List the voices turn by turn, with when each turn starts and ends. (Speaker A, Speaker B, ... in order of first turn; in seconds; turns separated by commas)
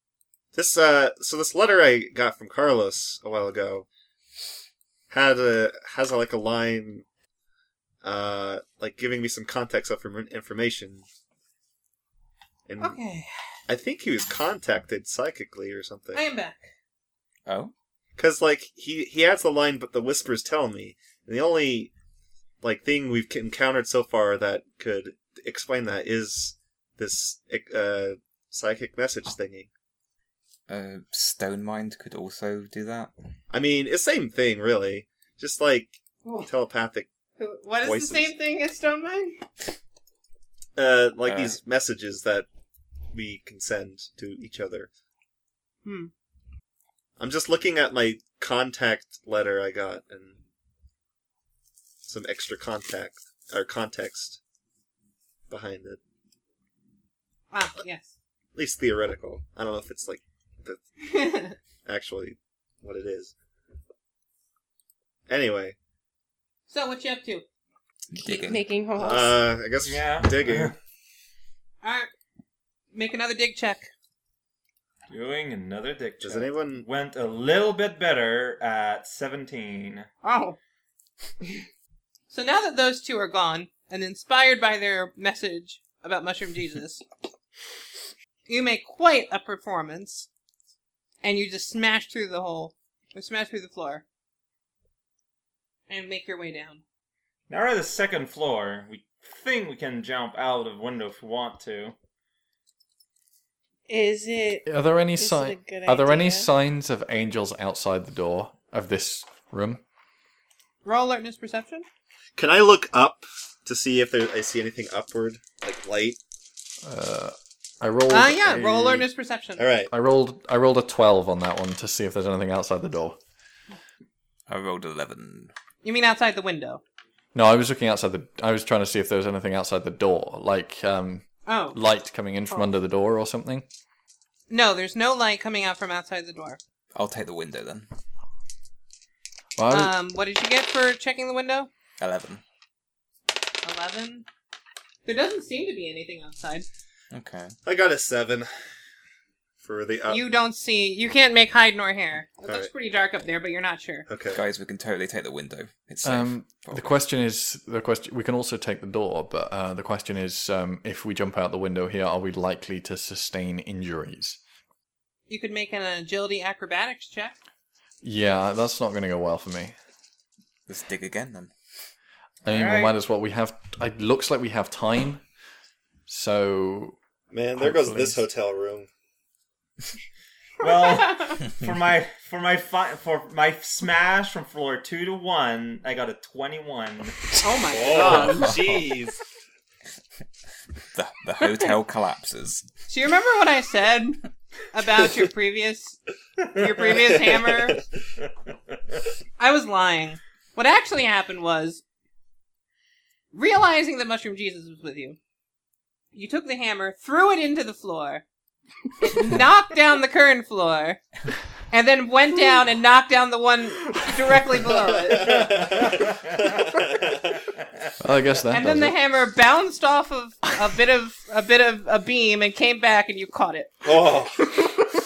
Speaker A: 0.5-3.9, Speaker A: 5.1-7.0, Speaker A: 8.0-11.0, Speaker A: 12.7-13.0, Speaker B: 12.8-13.3, Speaker A: 13.7-16.2, Speaker B: 16.1-16.7, Speaker C: 17.4-17.7, Speaker A: 18.2-21.9, Speaker A: 22.6-29.7, Speaker C: 30.7-33.1, Speaker A: 33.5-37.1, Speaker B: 37.4-39.5, Speaker A: 37.8-38.3, Speaker A: 40.8-42.5, Speaker C: 41.3-41.5, Speaker A: 43.1-44.9, Speaker B: 45.8-46.1, Speaker A: 47.2-50.4, Speaker A: 52.1-54.4, Speaker A: 55.5-56.0, Speaker B: 57.5-58.1, Speaker A: 58.5-60.8, Speaker B: 61.0-61.5, Speaker A: 61.8-63.3, Speaker A: 65.3-65.8, Speaker B: 66.7-67.4, Speaker C: 68.1-68.6, Speaker D: 68.1-69.4, Speaker A: 69.0-70.7, Speaker E: 69.8-70.7, Speaker B: 71.8-72.1, Speaker B: 72.9-73.9, Speaker E: 75.1-80.1, Speaker A: 76.2-76.8, Speaker B: 80.2-80.6, Speaker B: 82.3-87.0, Speaker B: 88.5-90.3, Speaker B: 91.2-94.0, Speaker B: 95.9-96.8, Speaker E: 97.5-101.9, Speaker D: 103.9-106.5, Speaker F: 104.7-109.8, Speaker B: 110.8-111.8, Speaker A: 112.4-116.2, Speaker F: 116.8-119.1, Speaker B: 118.1-119.6, Speaker A: 119.6-119.9, Speaker F: 119.9-123.2, Speaker C: 124.5-125.5, Speaker B: 125.8-126.8, Speaker F: 127.3-133.6, Speaker B: 131.4-131.8, Speaker B: 134.5-136.6, Speaker C: 136.9-137.9, Speaker F: 139.6-139.9, Speaker B: 139.7-141.7, Speaker C: 142.0-142.4, Speaker B: 143.6-144.2, Speaker B: 145.0-146.7, Speaker C: 147.1-147.5, Speaker A: 147.6-148.5, Speaker A: 149.6-150.2, Speaker B: 150.1-154.1, Speaker A: 154.1-154.4, Speaker C: 154.3-156.9, Speaker F: 156.0-164.4, Speaker B: 165.3-167.4, Speaker F: 168.0-169.8, Speaker C: 170.7-171.5, Speaker F: 172.4-175.2, Speaker E: 172.5-172.9, Speaker F: 176.1-177.0, Speaker A: 177.3-178.9, Speaker F: 177.6-178.2, Speaker E: 180.6-187.2, Speaker B: 187.4-188.5, Speaker A: 187.7-189.2, Speaker C: 188.0-188.8, Speaker C: 190.9-192.7, Speaker B: 192.9-194.2, Speaker B: 194.7-196.0, Speaker B: 196.5-197.8, Speaker A: 197.3-197.8, Speaker B: 199.4-201.8, Speaker B: 203.3-205.2, Speaker B: 206.1-208.2, Speaker B: 209.0-211.0, Speaker B: 211.7-215.5, Speaker A: 214.7-217.4, Speaker E: 215.4-216.5, Speaker F: 218.0-219.0, Speaker B: 218.5-223.8, Speaker A: 223.8-224.4